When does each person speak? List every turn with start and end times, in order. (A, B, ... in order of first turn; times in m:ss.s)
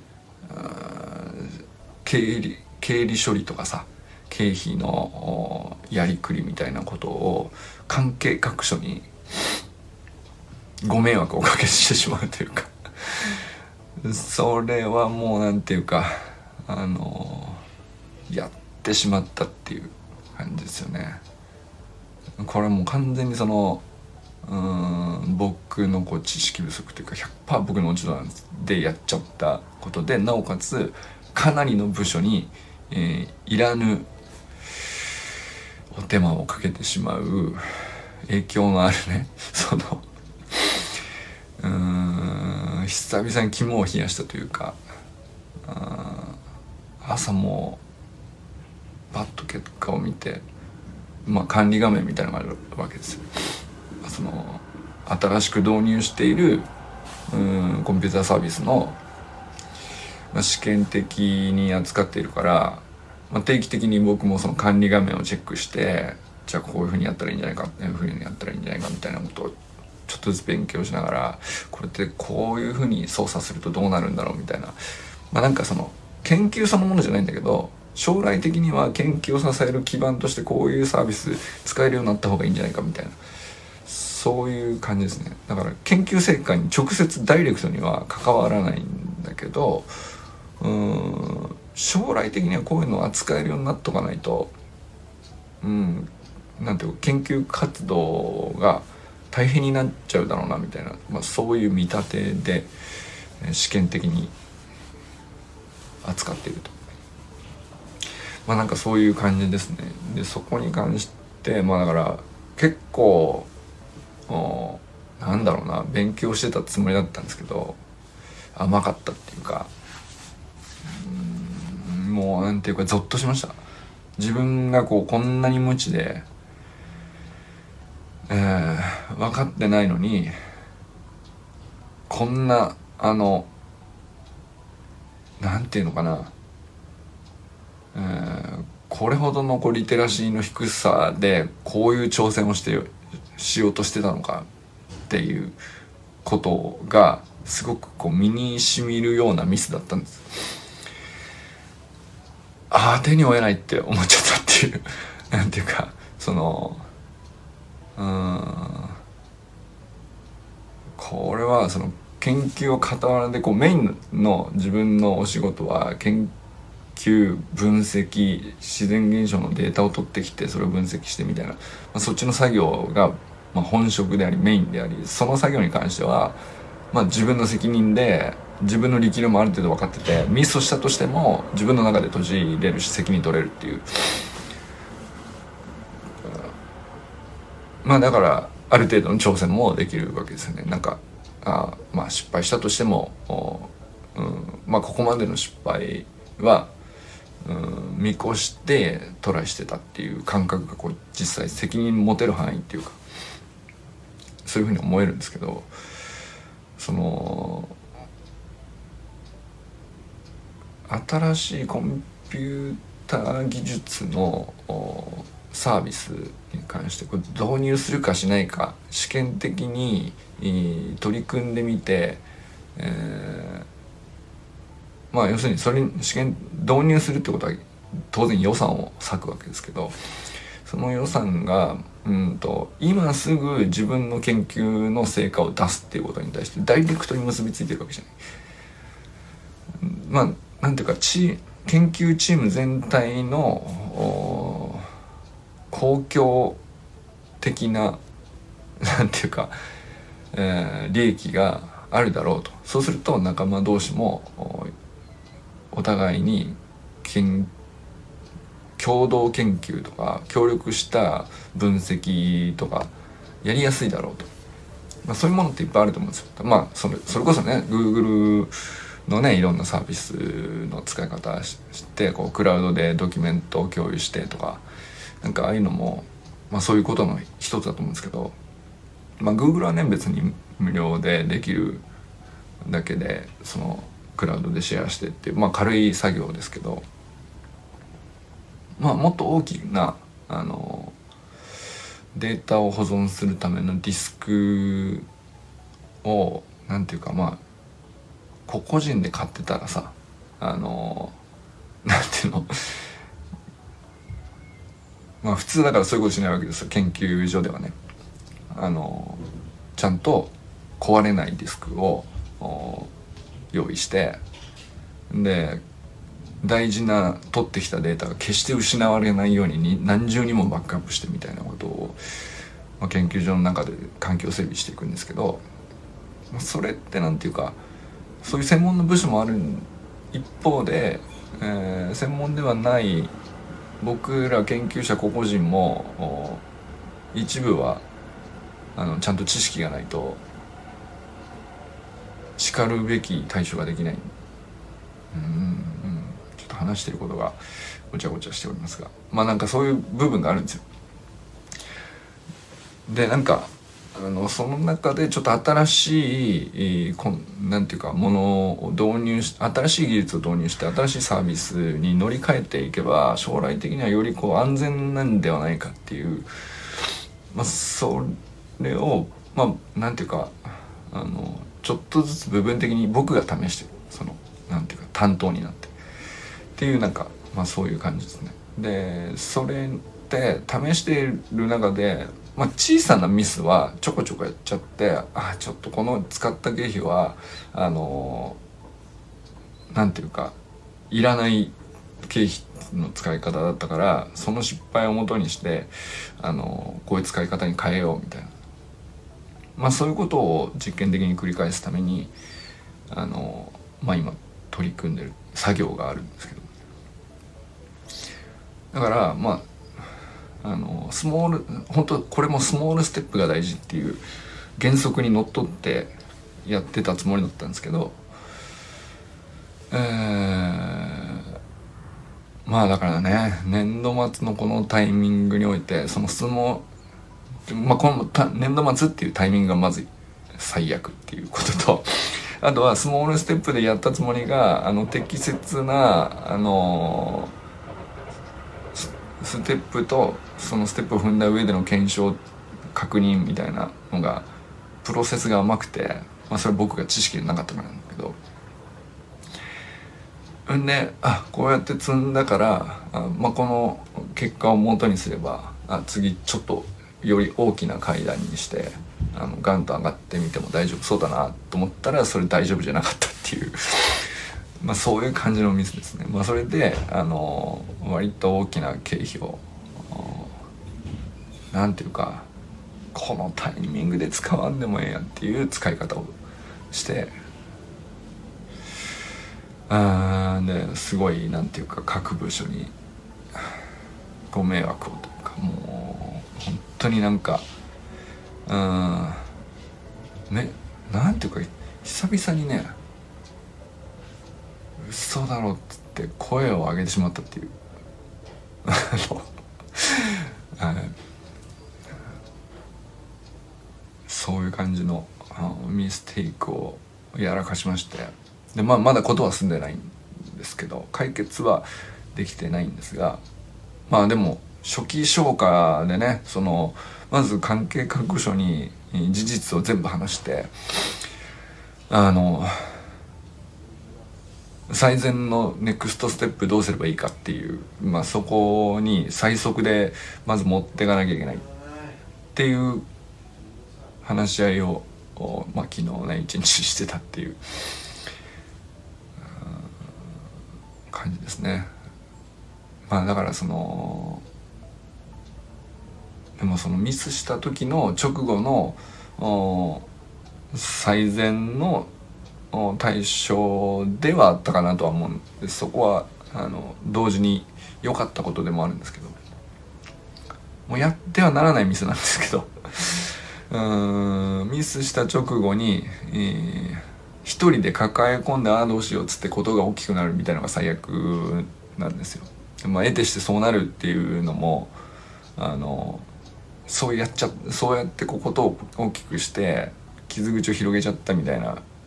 0:00.4-0:09.1 A
0:10.8-0:13.4 A
0:14.0-0:17.6 A
0:18.3-0:21.2 A
0:22.4-0:23.8 A
0:24.4-0:34.1 A
0:35.9-0:37.6 A
0:38.3-0:41.0 A
0:41.6-0:44.8 A
0:45.6-0:46.4 A
0:47.0-0:47.8 A
0:49.1-0:50.4 A
0:51.2-0:53.2 A
0:54.0-0:56.7 A
0:57.3-0:59.0 A
1:00.3-1:14.8 A
1:15.3-1:23.2 A
1:23.9-1:29.9 A
1:30.6-1:34.5 A
1:35.6-1:42.7 A
1:43.4-1:44.3 A
1:46.0-1:46.8 A
1:48.5-1:53.5 A
1:54.3-1:57.8 A
1:58.6-1:59.7 A
2:00.8-2:03.6 A
2:04.2-2:06.2 A
2:08.3-2:10.3 A
2:12.1-2:13.5 A
2:15.4-2:16.3 A
2:17.9-2:24.5 A
2:25.1-2:25.6 A
2:26.2-2:30.5 A
2:32.7-2:36.9 A
2:38.0-2:39.0 A
2:41.0-2:46.3 A
2:47.0-2:56.4 A
2:56.9-3:04.2 A
3:07.8-3:16.7 A
3:17.4-3:23.0 A
3:24.4-3:25.7 A
3:26.8-3:27.8 A
3:30.9-3:42.2 A
3:42.8-3:43.7 A
3:45.1-3:49.9 A
3:50.7-3:58.2 A
3:59.8-4:04.9 A
4:05.7-4:06.6 A
4:07.4-4:08.0 A
4:08.8-4:09.5 A
4:10.3-4:14.7 A
4:15.7-4:17.5 A
4:18.8-4:22.9 A
4:23.4-4:24.3 A
4:25.0-4:28.5 A
4:29.1-4:34.6 A
4:35.2-4:38.4 A
4:39.2-4:41.8 A
4:42.6-4:46.8 A
4:48.8-4:51.0 A
4:52.1-4:55.1 A
4:56.0-4:57.4 A
4:58.5-5:01.2 A
5:01.8-5:02.8 A
5:05.2-5:07.8 A
5:08.5-5:09.2 A
5:09.8-5:12.9 A
5:13.5-5:14.2 A
5:15.1-5:15.6 A
5:16.4-5:22.0 A
5:22.8-5:25.4 A
5:26.3-5:27.6 A
5:28.2-5:33.1 A
5:33.8-5:36.4 A
5:37.1-5:37.8 A
5:38.8-5:40.2 A
5:42.4-5:44.1 A
5:45.1-5:47.4 A
5:47.9-5:50.6 A
5:52.9-6:06.3 A
6:07.3-6:15.8 A
6:16.6-6:28.4 A
6:29.7-6:30.4 A
6:30.9-6:38.3 A
6:39.6-6:42.1 A
6:42.9-6:46.5 A
6:48.7-6:49.4 A
6:50.4-6:54.0 A
6:54.6-6:55.9 A
6:56.4-6:58.0 A
6:59.7-7:01.3 A
7:02.5-7:06.7 A
7:07.5-7:17.3 A
7:18.8-7:22.2 A
7:22.7-7:24.3 A
7:24.8-7:28.2 A
7:30.5-7:50.4 A
7:51.5-7:52.3 A
7:52.9-7:56.2 A
7:56.7-7:57.1 A
7:59.7-8:02.7 A
8:04.3-8:07.4 A
8:08.5-8:09.3 A
8:10.3-8:12.8 A
8:14.8-8:17.5 A
8:18.6-8:21.0 A
8:24.1-8:33.2 A
8:33.9-8:40.5 A
8:41.9-8:42.7 A
8:44.7-8:51.5 A
8:52.4-8:52.8 A
8:54.0-8:57.4 A
8:59.3-8:59.7 A
9:00.9-9:01.7 A
9:02.9-9:04.2 A
9:06.4-9:09.9 A
9:10.5-9:11.9 A
9:12.5-9:19.2 A
9:20.7-9:34.7 A
9:35.4-9:36.1 A
9:36.7-9:41.6 A